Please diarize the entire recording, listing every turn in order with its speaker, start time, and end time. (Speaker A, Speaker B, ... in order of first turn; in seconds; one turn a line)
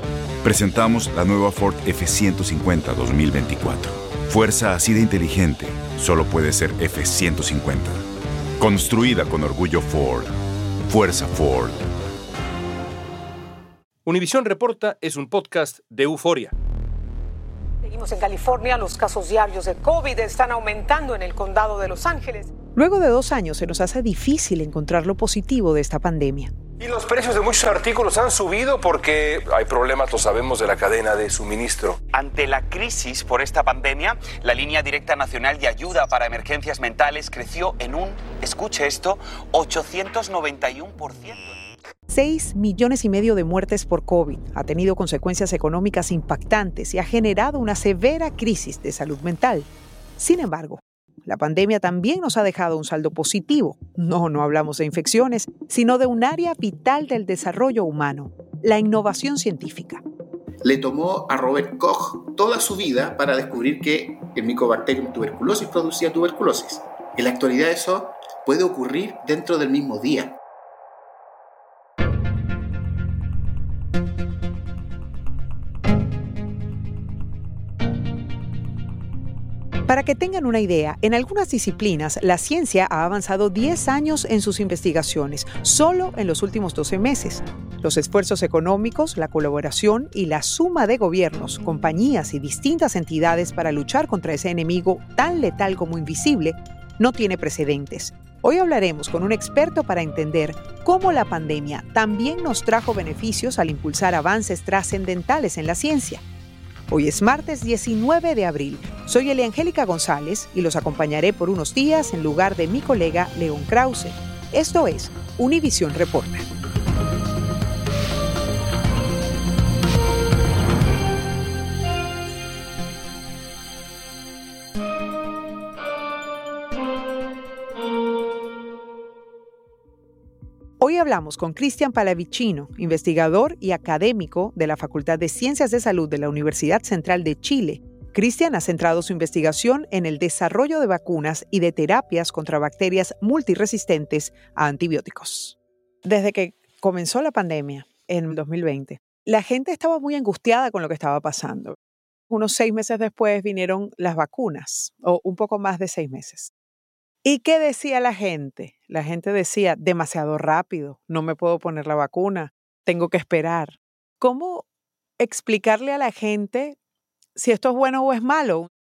Speaker A: 0.4-8.0
Speaker A: 8.6-10.3
Speaker A: 10.9-11.8
Speaker B: 14.0-16.6
Speaker C: 17.8-22.5
Speaker D: 22.8-26.5
Speaker E: 26.8-32.0
Speaker F: 32.1-41.6
Speaker D: 42.1-60.0
Speaker G: 60.6-70.4
Speaker D: 79.9-106.2
Speaker D: 106.9-116.5
Speaker D: 130.8-151.8
Speaker D: 152.3-156.5
Speaker D: 157.2-164.6
Speaker D: 165.2-166.8
Speaker D: 167.3-168.7